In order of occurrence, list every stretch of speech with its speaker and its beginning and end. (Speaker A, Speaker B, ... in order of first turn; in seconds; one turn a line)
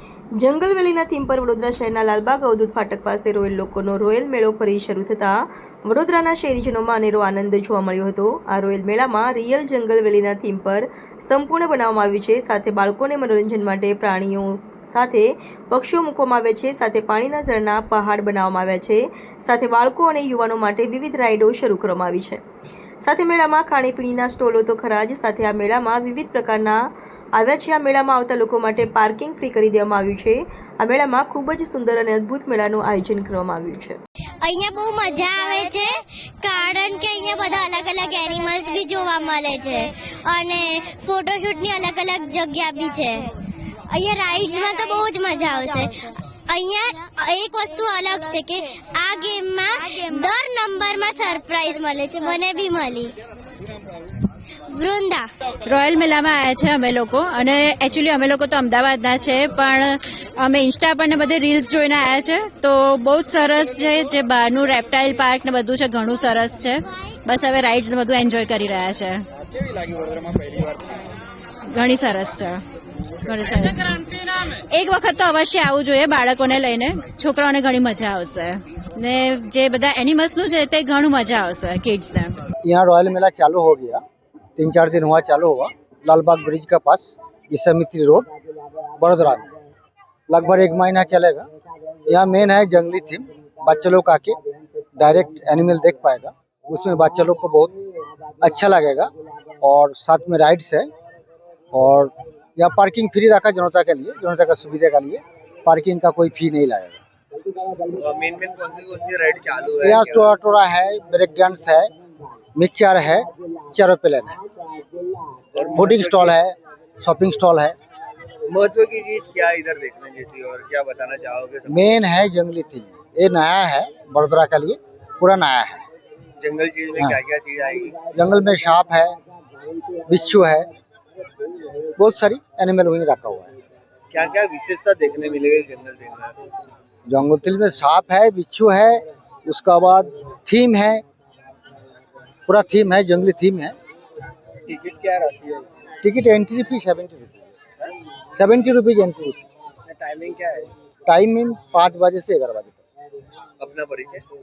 Speaker A: 0.4-22.4
Speaker A: 23.0-34.0
Speaker B: 34.4-43.3
Speaker B: 43.9-53.1
Speaker B: 54.7-55.3
Speaker C: 55.6-69.2
Speaker C: 71.7-72.6
Speaker C: 73.2-74.1
Speaker C: 74.7-82.4
Speaker D: 82.6-84.0
Speaker D: 84.6-88.3
Speaker D: 89.0-89.5
Speaker D: 90.3-91.5
Speaker D: 92.0-94.4
Speaker D: 95.0-97.7
Speaker D: 98.4-100.9
Speaker D: 101.7-107.0
Speaker E: 107.9-110.3
Speaker D: 109.8-111.9
Speaker D: 112.5-114.4
Speaker E: 115.5-116.4
Speaker D: 115.7-117.7
Speaker E: 118.5-121.9
Speaker D: 121.7-125.8
Speaker E: 126.4-128.1
Speaker D: 128.1-129.2
Speaker D: 130.0-130.7
Speaker D: 132.0-133.5
Speaker E: 134.1-136.3
Speaker D: 137.1-141.0
Speaker D: 142.5-143.7
Speaker E: 144.7-145.8
Speaker D: 146.0-147.5
Speaker D: 148.3-149.4
Speaker E: 149.9-150.7
Speaker D: 151.1-152.8
Speaker E: 153.6-154.2